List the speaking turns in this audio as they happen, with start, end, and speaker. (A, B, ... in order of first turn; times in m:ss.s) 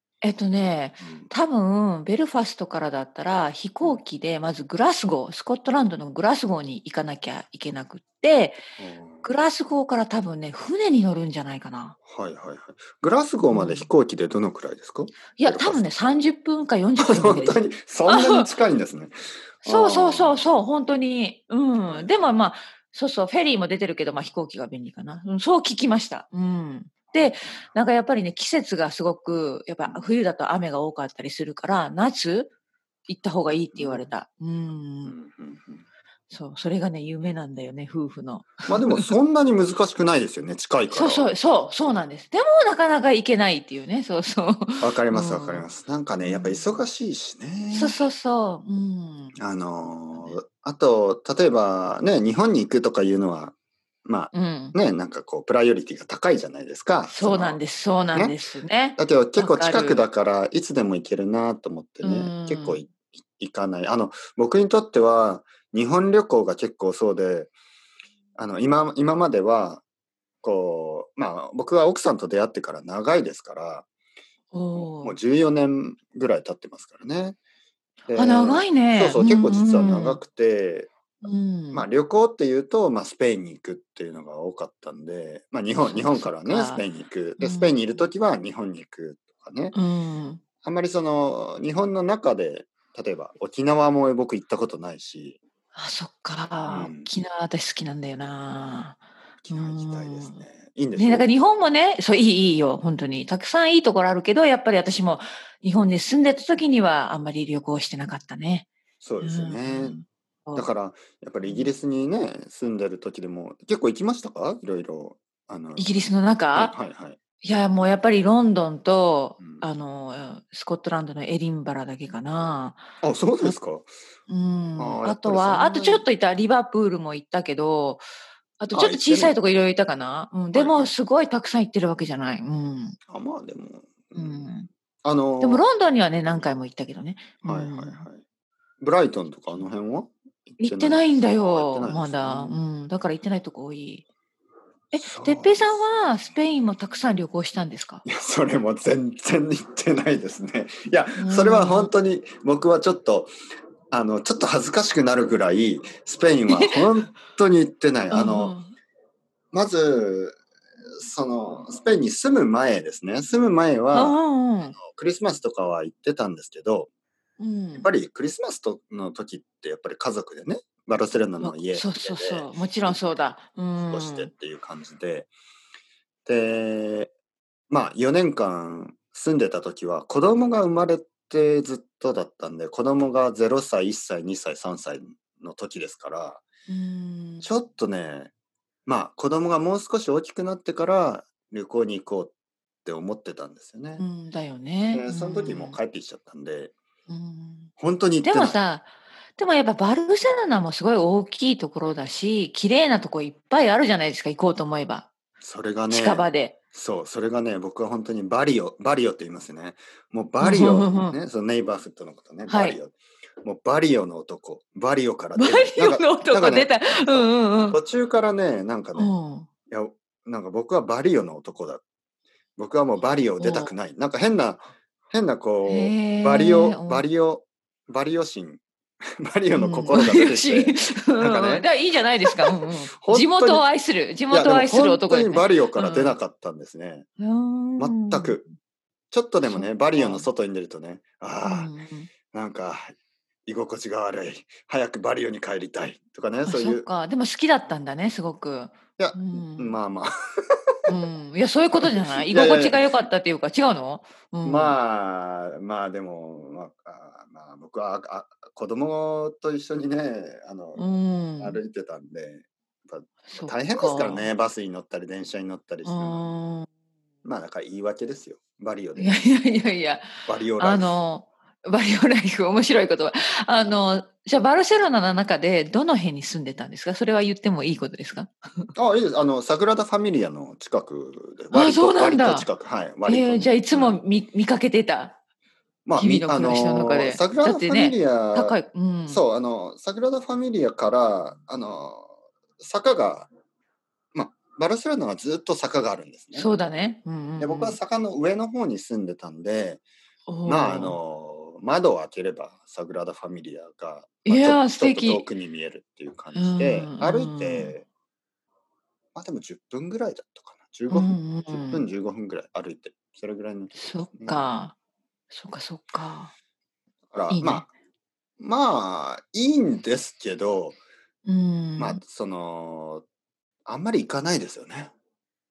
0:00.2-0:08.6 A
0:01.0-0:01.3 B
0:08.8-0:09.3 B
0:09.2-0:12.0 A
0:12.0-0:16.3 B
0:13.5-0:13.9 A
0:15.4-0:18.5 A
0:17.0-0:20.5 B
0:19.6-0:32.5 A
0:21.9-0:22.3 B
0:27.1-0:27.6 B
0:33.1-0:35.1 A
0:33.7-0:34.1 B
0:35.0-0:35.8 B
0:36.3-0:39.1 A
0:38.7-0:41.3 B
0:40.9-0:45.7 A
0:44.8-0:48.0 B
0:46.2-0:46.8 A
0:47.7-0:49.4 A
0:49.4-0:57.6 B
0:54.3-0:54.8 A
0:57.1-1:00.1 A
0:59.0-1:07.5 B
1:02.0-1:02.8 A
1:08.4-1:09.8 B
1:10.4-1:13.9 B
1:14.5-1:15.2 A
1:14.7-1:17.4 B
1:18.1-1:20.9 B
1:18.1-1:20.2 A
1:21.2-1:21.9 A
1:21.7-1:29.8 B
1:25.8-1:26.8 A
1:27.4-1:27.8 A
1:29.7-1:30.4 A
1:30.6-1:35.4 B
1:35.7-1:40.4 A
1:36.6-1:37.1 B
1:39.4-1:41.3 B
1:40.9-1:48.7 A
1:49.0-1:50.0 B
1:49.2-1:50.7 A
1:50.6-1:57.2 B
1:51.4-1:51.7 A
1:55.8-1:56.7 A
1:57.4-2:02.9 A
1:59.4-1:59.6 B
2:03.0-2:03.9 B
2:04.3-2:08.0 A
2:04.8-2:06.0 B
2:08.6-2:13.0 A
2:08.7-2:09.4 B
2:10.5-2:10.9 B
2:13.1-2:15.6 B
2:14.1-2:14.7 A
2:15.4-2:18.0 A
2:17.4-2:18.2 B
2:18.8-2:22.6 B
2:20.6-2:24.0 A
2:24.9-2:28.0 A
2:24.9-2:25.8 B
2:28.0-2:33.3 B
2:31.2-2:31.9 A
2:33.9-2:38.6 B
2:36.5-2:37.0 A
2:38.1-2:38.7 A
2:39.5-2:40.4 B
2:41.0-2:44.2 B
2:43.9-2:44.8 A
2:44.7-2:46.9 B
2:47.4-2:47.9 A
2:47.8-2:53.0 B
2:51.4-2:54.3 A
2:53.8-2:55.3 B
2:56.2-2:57.1 B
2:57.7-3:06.4 B
3:06.7-3:07.5 A
3:07.4-3:08.3 B
3:08.8-3:12.3 B
3:12.8-3:14.0 B
3:14.0-3:15.8 A
3:14.9-3:16.7 B
3:17.1-3:17.7 A
3:17.8-3:18.6 B
3:18.2-3:25.1 A
3:25.4-3:39.1 B
3:25.9-3:26.6 A
3:30.4-3:31.2 A
3:32.5-3:32.8 A
3:35.4-3:37.8 A
3:39.0-3:39.5 A
3:39.7-3:41.8 B
3:42.6-3:48.6 B
3:43.4-3:43.7 A
3:45.6-3:47.1 A
3:49.2-3:51.7 B
3:49.5-3:56.2 A
3:52.2-3:53.6 B
3:54.3-3:57.0 B
3:57.2-3:58.5 A
3:57.8-3:58.4 B
3:59.1-4:01.7 B
3:59.4-4:00.2 A
4:01.4-4:02.1 A
4:02.3-4:02.9 B
4:03.4-4:06.9 B
4:06.4-4:09.8 A
4:09.0-4:10.8 B
4:10.8-4:14.8 A
4:11.7-4:12.9 B
4:14.4-4:20.8 B
4:20.8-4:21.6 A
4:21.4-4:26.2 B
4:23.3-4:24.3 A
4:25.8-4:26.7 A
4:27.2-4:29.3 B
4:29.0-4:38.7 A
4:30.2-4:31.0 B
4:38.7-4:44.0 B
4:41.5-4:42.5 A
4:43.0-4:45.2 A
4:45.8-4:48.6 B
4:46.0-4:49.2 A
4:49.1-4:53.3 B
4:54.1-4:56.5 B
4:56.3-4:57.8 A
4:57.4-4:59.8 B
5:00.3-5:01.0 A
5:00.4-5:07.8 B
5:04.2-5:05.2 A
5:06.3-5:07.7 A
5:09.1-5:14.5 B
5:10.9-5:11.8 A
5:13.7-5:14.7 A
5:15.3-5:16.3 A
5:17.1-5:17.7 B
5:17.3-5:17.6 A
5:18.4-5:20.8 B
5:21.2-5:22.0 A
5:21.8-5:23.0 B
5:23.6-5:24.9 B